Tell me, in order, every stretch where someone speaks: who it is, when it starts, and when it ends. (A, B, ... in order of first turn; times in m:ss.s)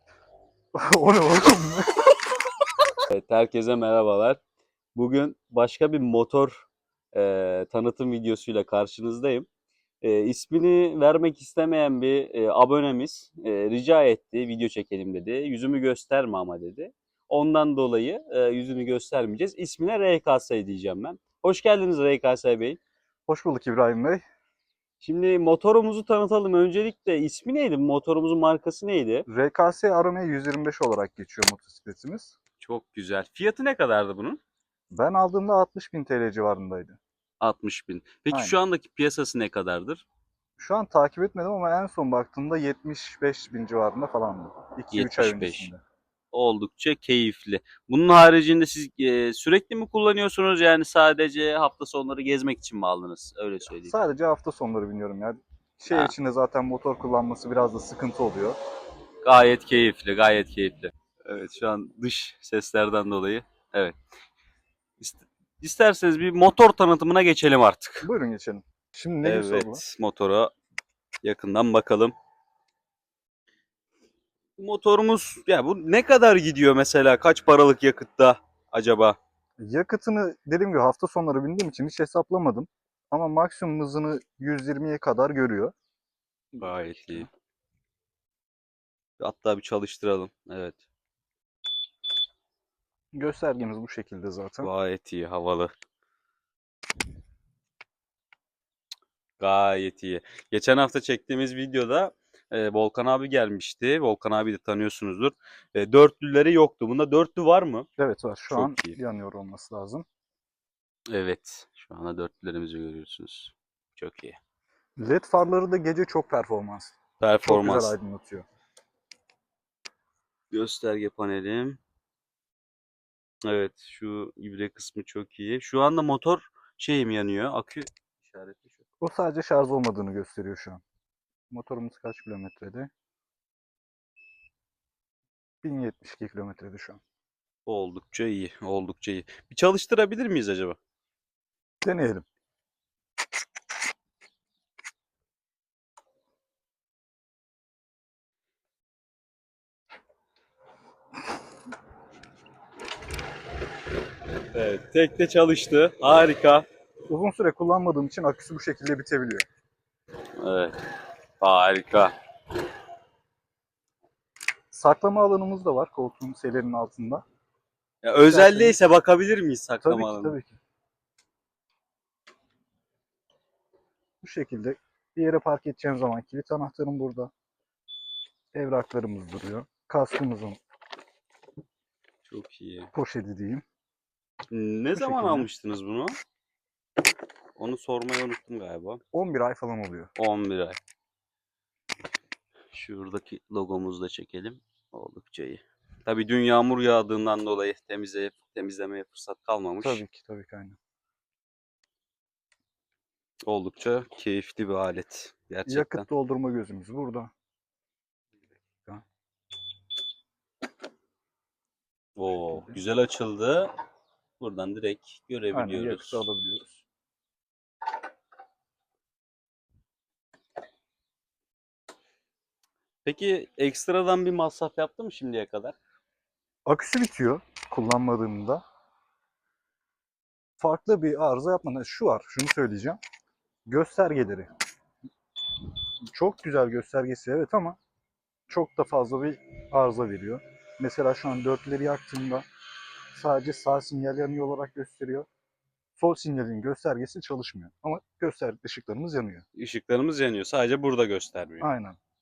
0:00.7-0:02.1 A
0:03.1-0:04.4 B
0:05.0-0:09.5 B
0:10.0-0:22.8 B
0:23.3-0:24.2 A
0:25.0-0:29.2 B
0:29.3-0:32.3 A
0:32.6-0:34.4 B
0:34.9-0:37.0 A
0:37.4-0:40.0 B
0:38.3-0:38.6 A
0:40.6-0:45.8 A
0:44.9-0:45.7 B
0:46.3-0:53.9 B
0:53.8-0:58.6 A
0:59.2-1:04.0 B
1:05.0-1:08.1 B
1:08.0-1:09.8 A
1:09.2-1:10.5 B
1:11.2-1:12.1 B
1:14.6-1:19.2 B
1:19.6-1:25.7 A
1:26.5-1:27.3 A
1:26.6-1:27.3 B
1:29.2-1:30.8 B
1:33.1-1:34.7 A
1:34.6-1:35.7 B
1:39.4-1:47.9 B
1:48.0-1:50.0 A
1:48.5-1:49.0 B
1:51.1-1:54.4 B
1:55.0-1:58.4 A
1:57.2-1:58.0 B
2:00.5-2:01.8 B
2:03.4-2:08.8 B
2:09.0-2:10.8 A
2:11.5-2:12.9 A
2:15.6-2:17.0 A
2:17.6-2:20.8 B
2:21.8-2:22.2 A
2:34.5-2:36.6 B
2:37.1-2:39.4 A
2:40.4-2:40.8 B
2:41.4-2:42.1 B
2:44.7-2:47.2 A
2:48.0-2:50.4 B
2:48.1-2:48.8 A
2:49.8-2:50.6 A
2:54.2-2:57.3 A
2:58.5-3:00.6 A
3:02.2-3:02.9 B
3:02.9-3:03.6 A
3:04.5-3:06.2 B
3:04.9-3:05.5 A
3:07.6-3:09.0 B
3:09.1-3:10.1 A
3:10.2-3:10.8 B
3:12.7-3:20.0 B
3:19.8-3:20.8 A
3:23.4-3:26.1 B
3:25.7-3:27.3 A
3:32.2-3:33.7 B
3:34.4-3:36.2 B
3:35.5-3:36.8 A
3:43.0-3:45.7 B
3:46.6-3:48.6 A
3:50.6-3:53.0 A
3:53.6-3:54.5 A
3:56.0-3:57.8 A
3:58.5-4:02.4 A
4:03.1-4:05.3 A
4:06.0-4:09.4 A
4:09.6-4:11.7 B
4:11.6-4:12.0 A